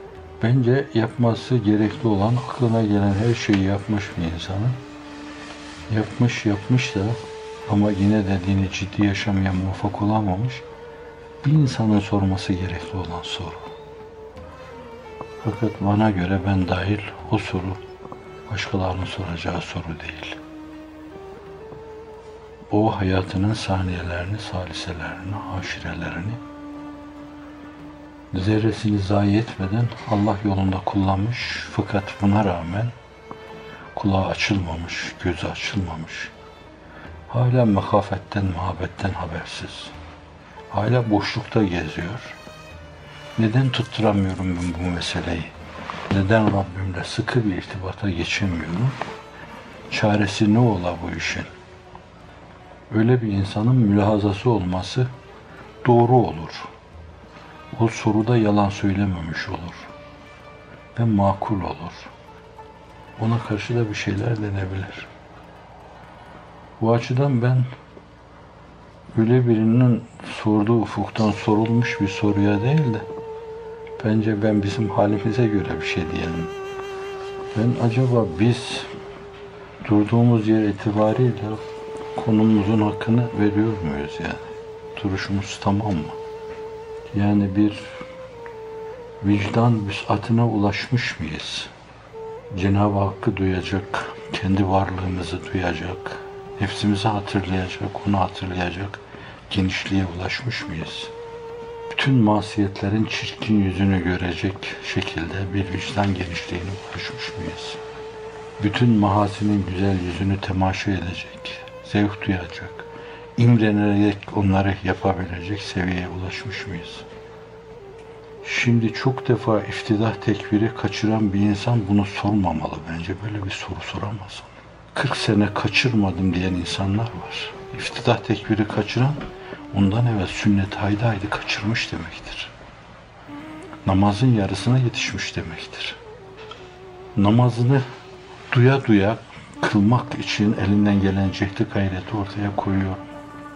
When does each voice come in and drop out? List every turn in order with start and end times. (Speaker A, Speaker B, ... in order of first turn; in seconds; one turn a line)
Speaker A: 0.4-4.8
Speaker A: 5.9-10.6
Speaker A: 11.4-13.7
Speaker A: 15.4-17.8
Speaker A: 18.5-20.4
Speaker A: 22.7-26.4
Speaker A: 28.3-33.0
Speaker A: 33.9-36.3
Speaker A: 37.3-39.9
Speaker A: 40.7-42.4
Speaker A: 43.4-45.5
Speaker A: 46.1-49.0
Speaker A: 49.9-51.5
Speaker A: 52.9-55.1
Speaker A: 55.8-56.7
Speaker A: 57.7-59.9
Speaker A: 60.9-62.1
Speaker A: 63.2-65.1
Speaker A: 66.8-67.7
Speaker A: 69.1-73.0
Speaker A: 74.0-76.5
Speaker A: 77.5-78.9
Speaker A: 79.8-81.6
Speaker A: 82.1-86.2
Speaker A: 87.1-88.0
Speaker A: 89.2-91.7
Speaker A: 92.5-101.1
Speaker A: 101.9-107.8
Speaker A: 108.6-117.0
Speaker A: 118.4-132.5
Speaker A: 133.8-136.0
Speaker A: 137.2-137.8
Speaker A: 138.5-143.0